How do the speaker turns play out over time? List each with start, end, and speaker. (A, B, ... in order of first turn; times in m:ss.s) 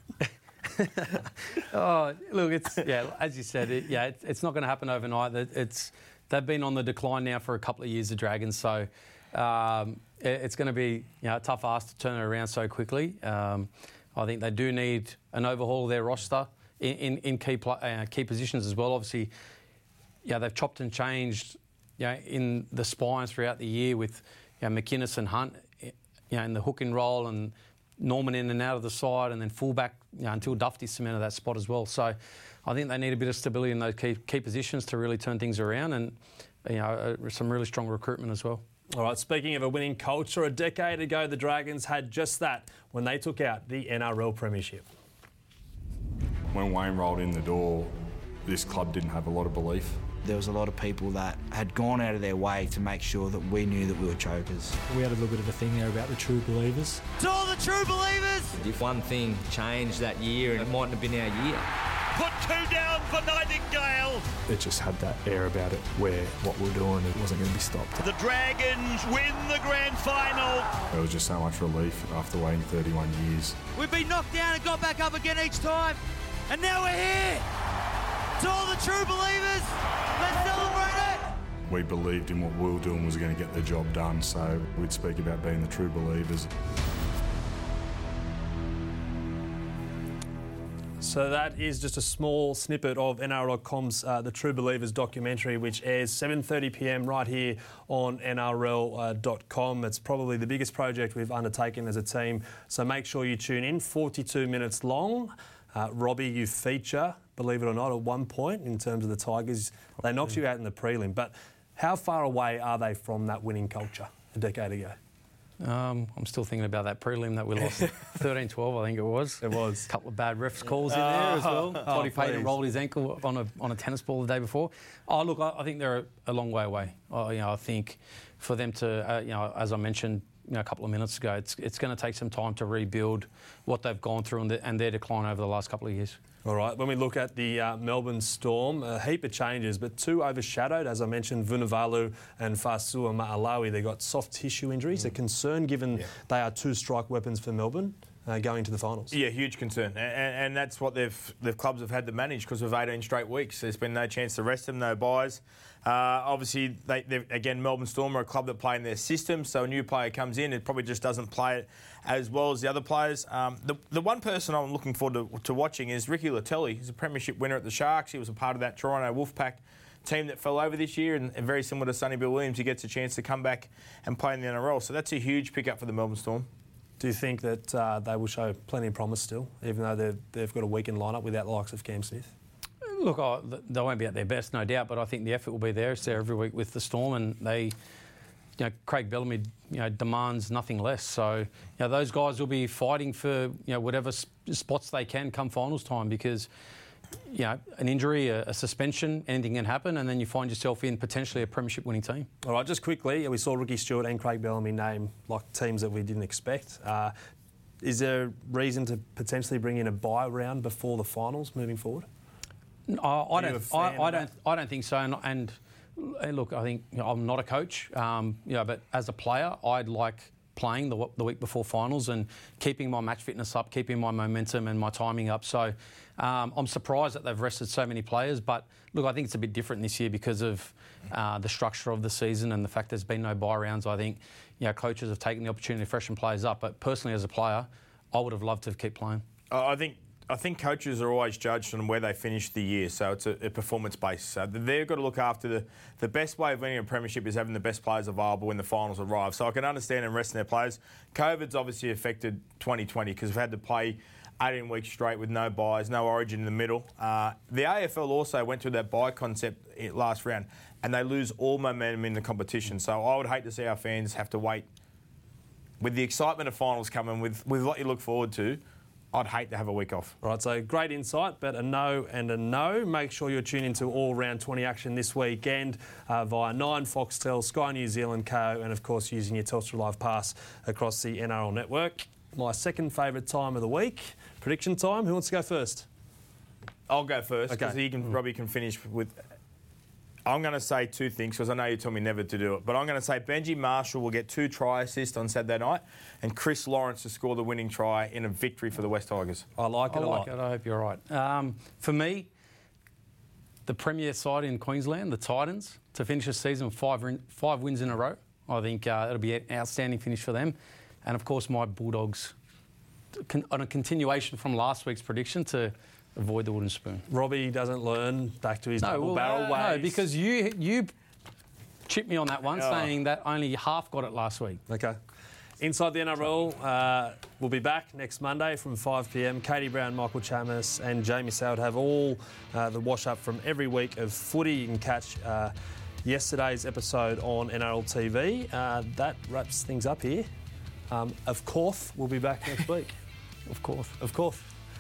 0:00.7-0:19.3 A
0:20.2-0:38.6 A
0:38.9-0:44.9 B
0:46.5-0:50.0 C
0:50.2-0:54.8 D
0:54.9-0:57.0 E
0:57.2-0:58.6 F
0:58.6-1:01.7 G
1:02.2-1:04.3 F
1:04.5-1:08.0 E
1:08.0-1:10.8 F
1:10.9-1:13.6 C
1:13.8-1:16.0 F
1:16.5-1:17.4 F
1:18.4-1:21.3 F
1:21.7-1:26.5 C
1:31.0-1:55.0 B
1:55.6-2:16.2 A
1:59.4-1:59.9 B
2:01.8-2:02.6 B
2:16.4-2:29.2 B
2:29.1-2:56.5 H
2:57.0-3:02.3 B
3:02.8-3:07.8 A
3:08.6-3:16.5 A
3:17.3-3:22.3 A
3:22.4-3:27.1 B
3:27.8-3:32.1 B
3:32.9-3:59.2 A
3:33.4-3:34.3 B
3:59.5-4:24.7 H
4:25.8-4:28.6 H
4:29.1-4:30.1 H
4:30.2-4:45.9 B
4:46.9-4:49.2 H
4:47.5-4:47.8 B
4:50.2-4:59.5 H
4:59.6-5:00.3 B
4:59.9-5:02.3 A
5:03.7-5:12.3 A
5:13.2-5:17.1 A
5:17.1-5:20.0 B
5:18.8-5:20.9 A
5:21.9-5:24.6 A
5:24.7-5:25.0 B
5:25.6-5:40.3 B
5:40.9-5:43.0 B
5:43.5-5:44.0 A
5:44.0-5:44.5 B